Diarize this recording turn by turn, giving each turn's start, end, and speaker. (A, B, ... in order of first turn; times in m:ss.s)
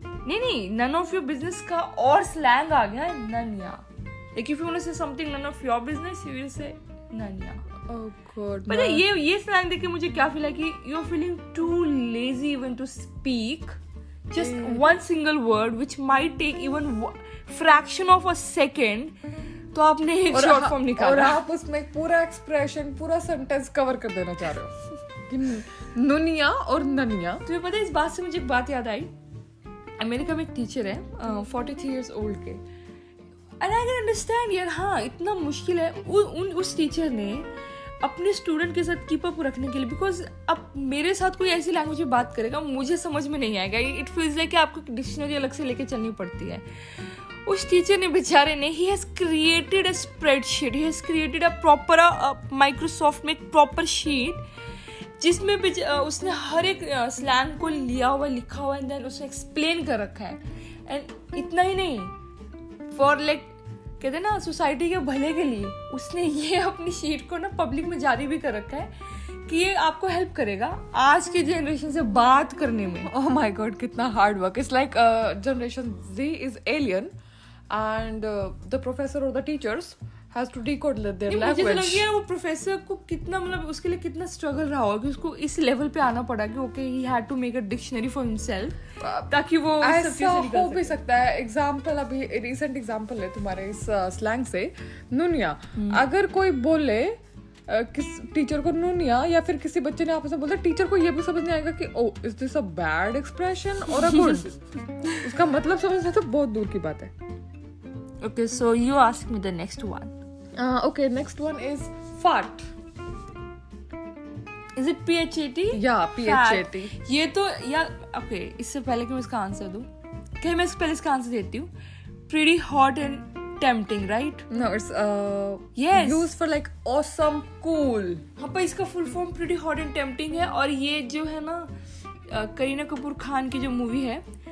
0:00.2-0:03.8 A
0:04.3-0:07.6 A
0:07.9-0:09.0 B
0:08.7-0:13.8 A
0:14.3-0:19.1 A
0:14.3-0:14.9 B
0:19.7-0:21.4 A
0:20.3-0:24.7 B
0:25.3-0:27.4 B
0:27.4-0:29.1 A
0:30.0-0:32.6 A
0:33.6-0:37.5 A
0:38.0-0:54.4 A
0:55.2-1:02.1 A
1:02.9-1:08.9 A
1:09.4-1:13.1 A
1:13.0-1:17.1 B
1:17.7-1:22.1 B
1:21.3-1:31.0 A
1:29.0-1:29.3 B
1:29.8-1:44.6 B
1:35.8-1:36.0 A
1:45.1-1:47.1 B
1:48.2-1:50.1 A
1:50.6-1:52.7 B
1:54.8-1:59.9 A
1:55.7-1:56.9 B
2:00.4-2:01.7 A
2:02.3-2:04.4 A
2:04.5-2:08.2 B
2:05.8-2:06.3 A
2:08.4-2:11.7 A
2:12.3-2:14.2 A